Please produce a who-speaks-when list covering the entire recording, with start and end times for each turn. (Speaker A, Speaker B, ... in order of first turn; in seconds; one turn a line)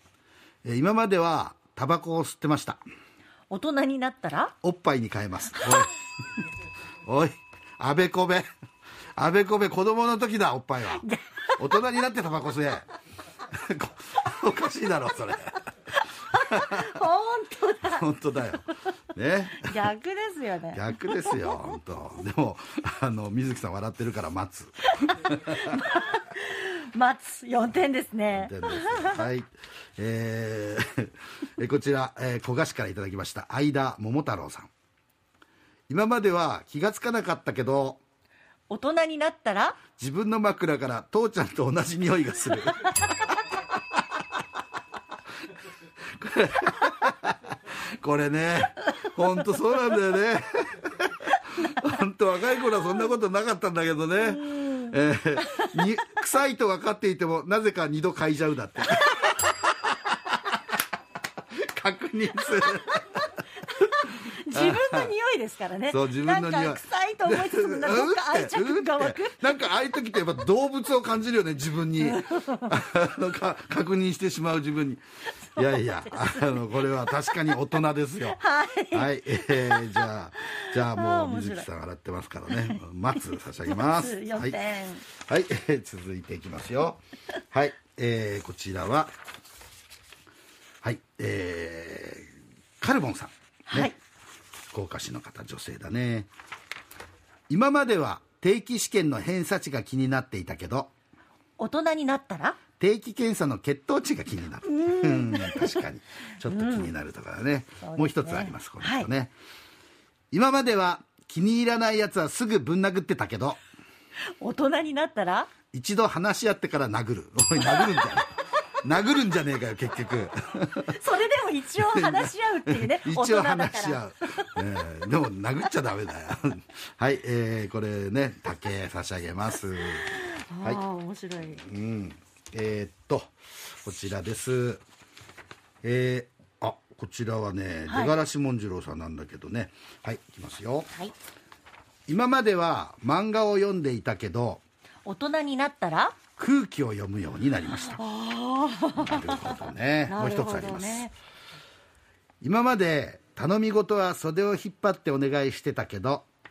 Speaker A: 0.7-2.8
Speaker B: 3.5-4.5
Speaker A: 4.6-5.9
Speaker A: 7.0-8.5
Speaker A: 9.2-11.1
Speaker B: 11.0-11.6
Speaker A: 11.6-12.9
Speaker A: 13.5-15.7
Speaker B: 16.3-18.1
Speaker A: 16.3-16.9
Speaker A: 17.9-19.8
Speaker B: 19.6-21.7
Speaker A: 20.7-25.8
Speaker B: 25.0-29.3
Speaker A: 28.3-34.7
Speaker A: 35.9-38.0
Speaker B: 38.7-39.8
Speaker A: 40.0-42.9
Speaker A: 46.1-60.4
Speaker B: 54.2-55.8
Speaker A: 61.5-63.3
Speaker B: 63.7-69.5
Speaker A: 64.5-65.1
Speaker A: 65.9-75.0
Speaker B: 72.0-72.7
Speaker B: 75.5-77.4
Speaker A: 75.6-78.4
Speaker B: 78.3-81.7
Speaker A: 78.9-84.6
Speaker B: 82.5-82.8
Speaker B: 83.7-85.0
Speaker A: 85.2-87.0
Speaker A: 87.5-89.1
Speaker A: 90.8-92.3
Speaker A: 92.8-93.9
Speaker B: 93.7-93.9
Speaker A: 94.7-96.3
Speaker A: 97.5-100.9
Speaker B: 101.6-102.6
Speaker A: 102.8-109.3
Speaker B: 104.7-105.8
Speaker B: 106.5-106.9
Speaker B: 107.8-109.1
Speaker A: 110.3-113.6
Speaker B: 114.4-115.5
Speaker A: 115.7-121.0
Speaker B: 117.6-118.2
Speaker B: 120.9-124.6
Speaker A: 121.9-130.1
Speaker B: 129.8-131.6
Speaker A: 131.6-134.8
Speaker A: 135.8-140.9
Speaker B: 137.9-138.2
Speaker A: 142.1-144.6
Speaker B: 145.1-146.2
Speaker A: 146.4-148.0
Speaker B: 147.7-151.1
Speaker A: 149.0-151.1
Speaker A: 152.4-156.3